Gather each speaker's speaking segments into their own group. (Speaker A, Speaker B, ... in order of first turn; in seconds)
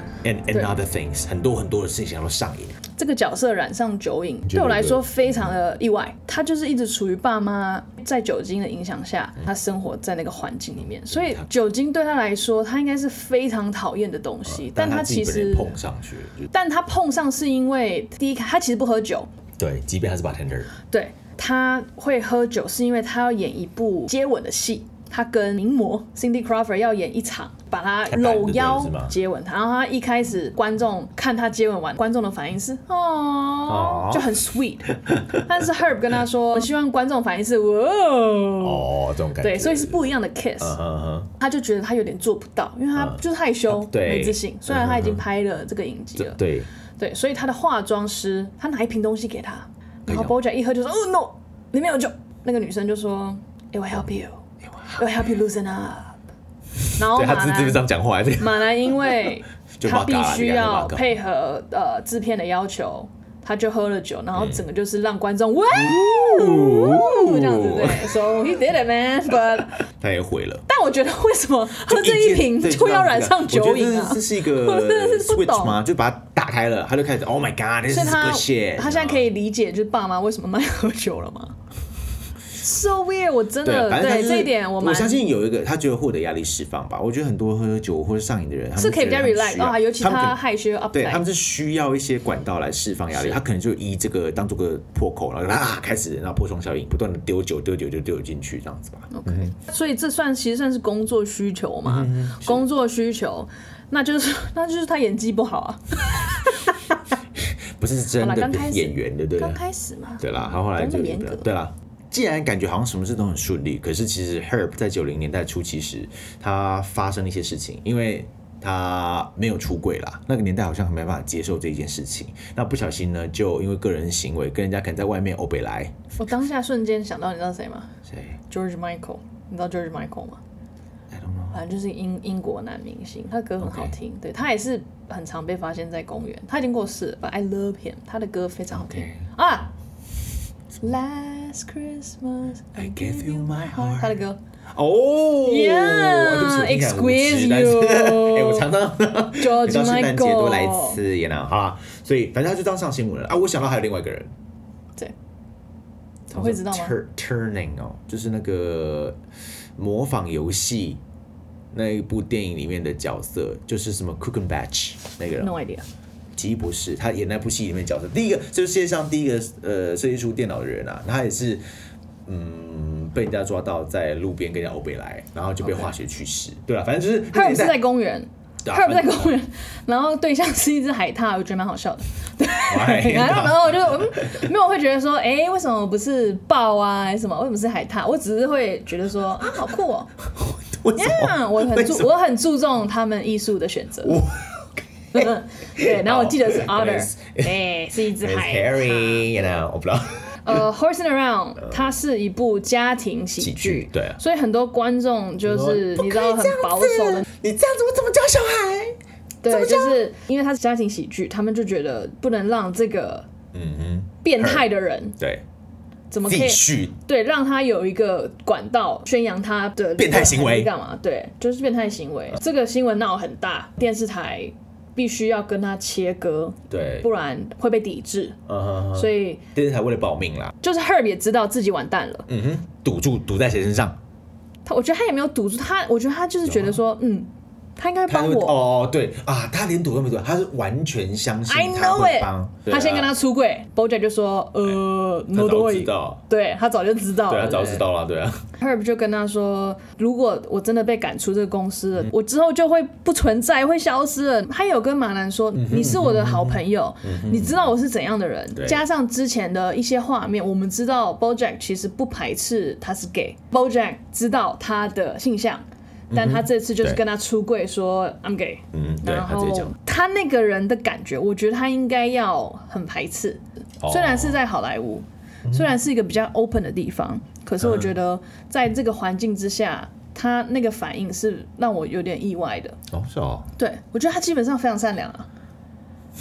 Speaker A: 0.2-2.8, 4.5-5.5, 11.1-11.5, 14.5-16.5, 19.6-20.8, 28.1-29.1, 33.7-34.4, 35.0-35.6, 38.6-40.1, 40.6-41.3, 43.0-45.2, 46.2-46.7, 50.1-50.4, 54.7-55.0, 56.9-61.1, 64.3-64.7, 65.7-68.3, 69.7-70.7, 71.8-79.2, 83.6-90.4, 90.9-99.5, 101.8-102.6, 107.3-109.6, 110.2-126.0, 128.1-128.4, 131.1-131.6, 133.6-133.9, 138.7-139.2, 142.8-144.2, 144.7-154.3, 156.3-159.2, 159.8-161.0, 161.7-165.5, 166.3-171.6, 172.3-177.8, 178.7-179.3, 182.7-184.5, 190.2-192.1, 194.0-197.6, 198.1-200.6, 203.4-204.2, 205.4-209.0, 209.5-210.1, 213.5-214.7, 215.2-215.4, 216.3-216.9, 220.0-220.7, 226.7-227.1, 228.5-230.5, 232.3-234.0, 236.4-236.8, 238.1-243.1, 245.3-246.2, 247.3-248.4, 255.6-257.7, 258.6-258.8, 266.1-267.0, 268.7-269.7, 273.8-274.4, 275.5-275.7, 277.6-277.9, 282.9-283.5
Speaker B: 3.0-15.8, 16.5-19.3, 20.9-40.8, 41.4-46.4, 47.0-54.4, 55.0-56.2, 57.0-57.9, 58.4-69.8, 70.7-75.8, 77.9-81.6, 82.5-85.3, 88.8-91.2, 93.1-93.4, 99.1-106.7, 108.2-111.5, 126.2-127.9, 128.5-130.4, 131.5-139.7, 140.8-144.4, 145.4-148.7, 149.4-151.0, 156.3-156.9, 165.4-165.9, 175.6-175.9, 177.3-190.1, 190.9-194.2, 195.1-199.6, 200.4-207.3, 209.4-213.3, 214.2-215.2, 216.1-228.4, 228.9-229.4, 230.6-232.3, 234.7-238.6, 241.5-247.9, 248.6-282.8, 283.6-285.3